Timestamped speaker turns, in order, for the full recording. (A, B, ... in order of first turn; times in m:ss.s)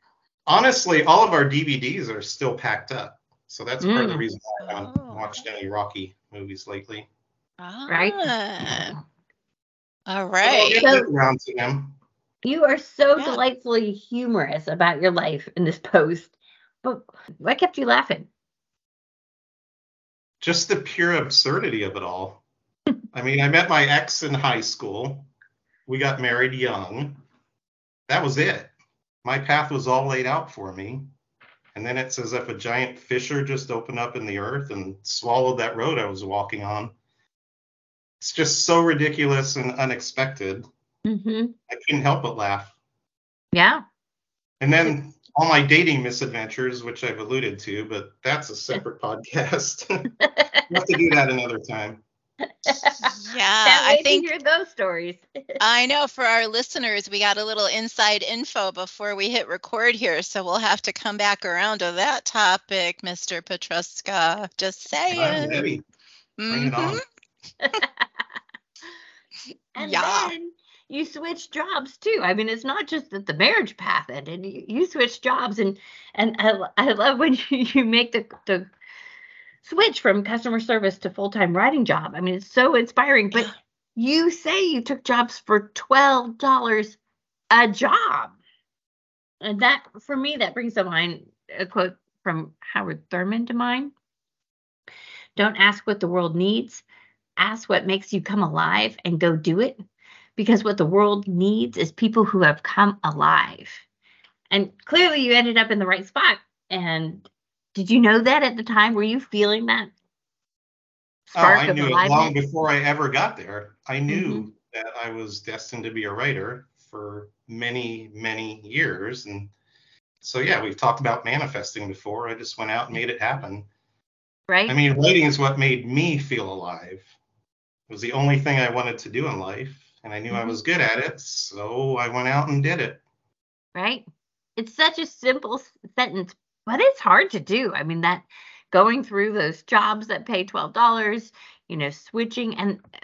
0:00.5-0:07.1 A
0:03.8-0:04.2 B
0:04.6-0:05.3 C
0:07.6-0:09.0 C
0:07.9-0:09.0 B
0:10.1-0:10.9 C
0:10.4-0:12.0 A
0:10.6-0:11.1 B
0:12.4-0:16.3 B
0:16.8-0:18.3 B
0:20.4-0:22.4 A
0:23.1-0:25.3 A
0:25.9-0:27.2 A
0:28.1-0:28.7 A
0:29.2-0:31.1 A
0:31.7-0:37.0 A
0:38.2-0:40.6 A
0:41.1-0:41.6 B
0:41.7-0:42.7 A
0:43.5-0:43.8 B
0:44.6-0:50.1 A
0:50.2-0:50.7 B
0:50.7-0:52.0 A
0:52.6-0:55.6 B
0:53.0-0:54.3 C
0:55.6-1:05.7 C
1:05.1-1:05.8 A
1:06.4-1:07.0 C
1:06.5-1:07.0 A
1:09.8-1:18.7 B
1:09.8-1:10.3 C
1:19.6-1:27.0 B
1:27.5-1:28.4 B
1:29.4-1:33.9 B
1:35.4-1:36.8 B
1:37.4-1:39.8 B
1:40.4-1:43.8 B
1:44.5-1:49.9 B
1:51.3-1:52.3 B
1:51.4-1:59.5 A
1:54.1-1:54.5 B
2:00.2-2:03.7 A
2:04.5-2:04.8 B
2:04.7-2:07.1 A
2:07.9-2:13.0 A
2:10.3-2:10.6 B
2:13.8-2:14.1 B
2:14.6-2:22.8 B